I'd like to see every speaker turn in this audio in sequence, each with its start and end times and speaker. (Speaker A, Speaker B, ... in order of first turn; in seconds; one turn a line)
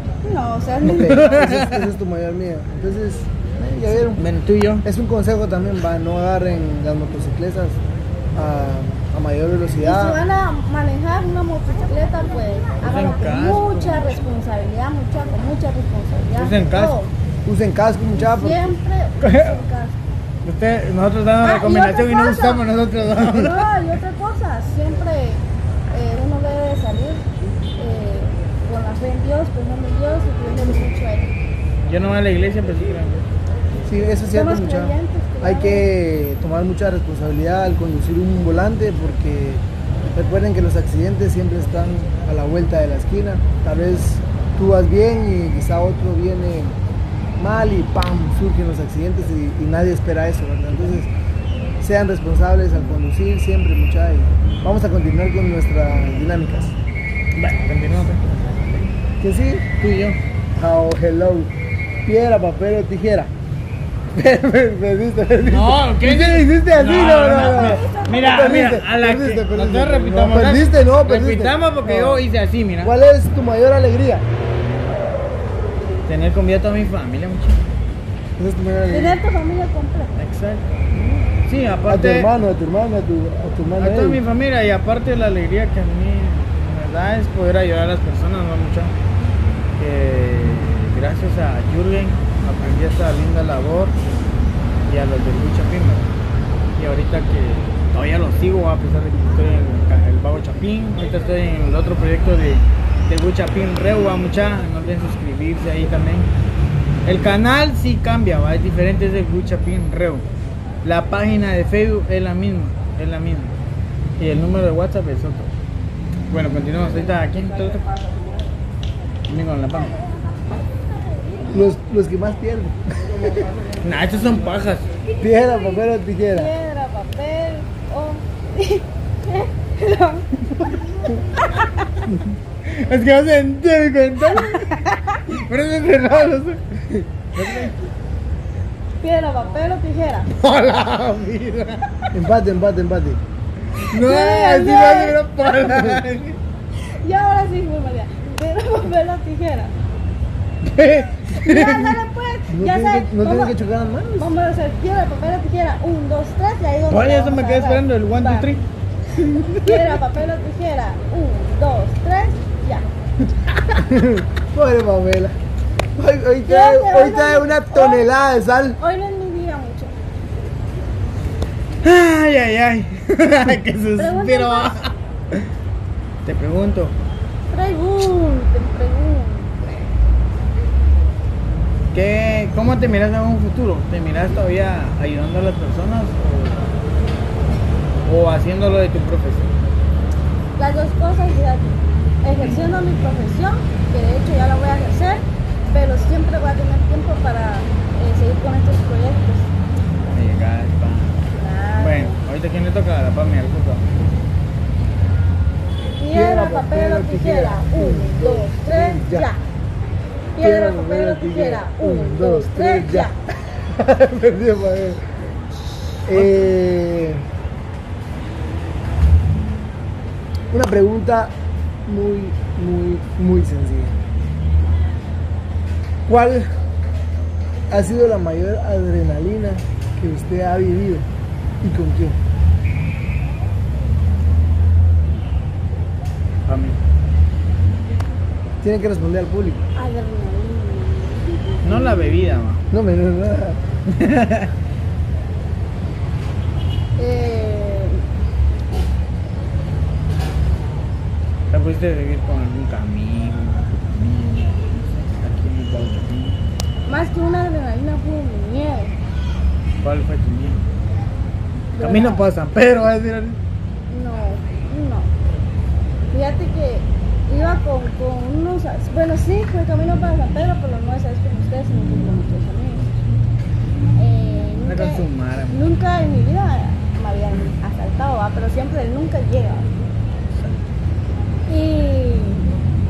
Speaker A: 0.2-1.3
Speaker B: 0.8-4.3
Speaker C: 0.9-1.9
Speaker C: 3.9-4.8
Speaker B: 4.8-7.8
Speaker B: 8.3-10.2
Speaker A: 9.8-17.1
Speaker C: 12.8-14.3
Speaker C: 16.4-16.9
Speaker B: 17.4-18.7
Speaker A: 18.1-19.9
Speaker C: 19.2-19.6
Speaker C: 20.4-23.7
Speaker A: 21.4-22.7
Speaker A: 23.3-27.2
Speaker A: 27.8-31.3
Speaker C: 31.9-33.3
Speaker B: 33.9-46.8
Speaker A: 34.3-35.9
Speaker B: 47.4-51.1
Speaker B: 51.8-56.7
Speaker C: 57.3-58.9
Speaker B: 59.2-59.7
Speaker C: 59.8-60.2
Speaker B: 60.5-61.5
Speaker B: 62.0-63.3
Speaker B: 64.1-72.2
Speaker C: 65.4-72.9
Speaker A: 67.2-68.5
Speaker B: 72.8-74.2
Speaker C: 76.0-77.6
Speaker B: 78.4-79.2
Speaker A: 78.9-80.2
Speaker C: 80.2-80.7
Speaker C: 81.3-82.3
Speaker B: 81.9-84.2
Speaker C: 83.8-88.9
Speaker C: 89.8-94.0
Speaker C: 94.9-96.1
Speaker C: 96.8-106.3
Speaker C: 107.0-110.2
Speaker C: 110.8-113.5
Speaker C: 114.2-115.5
Speaker C: 116.3-117.8
Speaker C: 119.3-119.9
Speaker A: 119.7-121.7
Speaker B: 121.5-123.5
Speaker C: 123.8-124.9
Speaker B: 125.2-126.5
Speaker A: 126.3-132.0
Speaker C: 132.1-137.8
Speaker A: 134.3-135.1
Speaker A: 139.0-140.3
Speaker C: 140.3-142.0
Speaker B: 142.1-143.2
Speaker C: 143.8-146.4
Speaker A: 143.9-145.5
Speaker B: 145.7-146.0
Speaker A: 146.7-149.7
Speaker C: 150.6-152.0
Speaker A: 151.2-153.6
Speaker B: 152.5-154.3
Speaker A: 154.2-158.5
Speaker C: 156.9-160.0
Speaker A: 159.6-162.8
Speaker B: 163.8-165.3
Speaker B: 165.9-168.8
Speaker A: 166.4-168.2
Speaker A: 168.8-169.9
Speaker C: 171.8-175.5
Speaker A: 174.0-174.7
Speaker C: 176.2-176.9
Speaker A: 177.5-179.6
Speaker C: 181.9-186.7
Speaker C: 188.0-189.5
Speaker A: 190.6-199.5
Speaker C: 192.4-192.7
Speaker C: 200.1-201.2
Speaker A: 201.4-202.2
Speaker C: 201.8-203.8
Speaker A: 206.0-209.4
Speaker B: 206.1-209.3
Speaker A: 210.3-213.1
Speaker B: 210.4-215.0
Speaker B: 216.1-217.2
Speaker C: 216.1-216.5
Speaker B: 220.5-221.3
Speaker B: 221.9-224.0
Speaker B: 226.1-226.5
Speaker B: 227.7-231.1
Speaker B: 231.6-232.2
Speaker C: 236.5-236.8
Speaker B: 238.6-239.6
Speaker A: 239.8-241.9
Speaker C: 241.6-242.6
Speaker B: 242.7-243.6
Speaker C: 243.9-244.5
Speaker A: 247.0-248.0
Speaker C: 251.5-256.4
Speaker A: 256.9-258.9
Speaker C: 259.8-260.6
Speaker A: 261.7-262.3
Speaker C: 261.8-263.4
Speaker A: 263.9-265.1
Speaker A: 266.1-272.9
Speaker A: 273.9-279.7
Speaker C: 274.6-275.6
Speaker C: 280.3-280.6
Speaker A: 281.5-282.4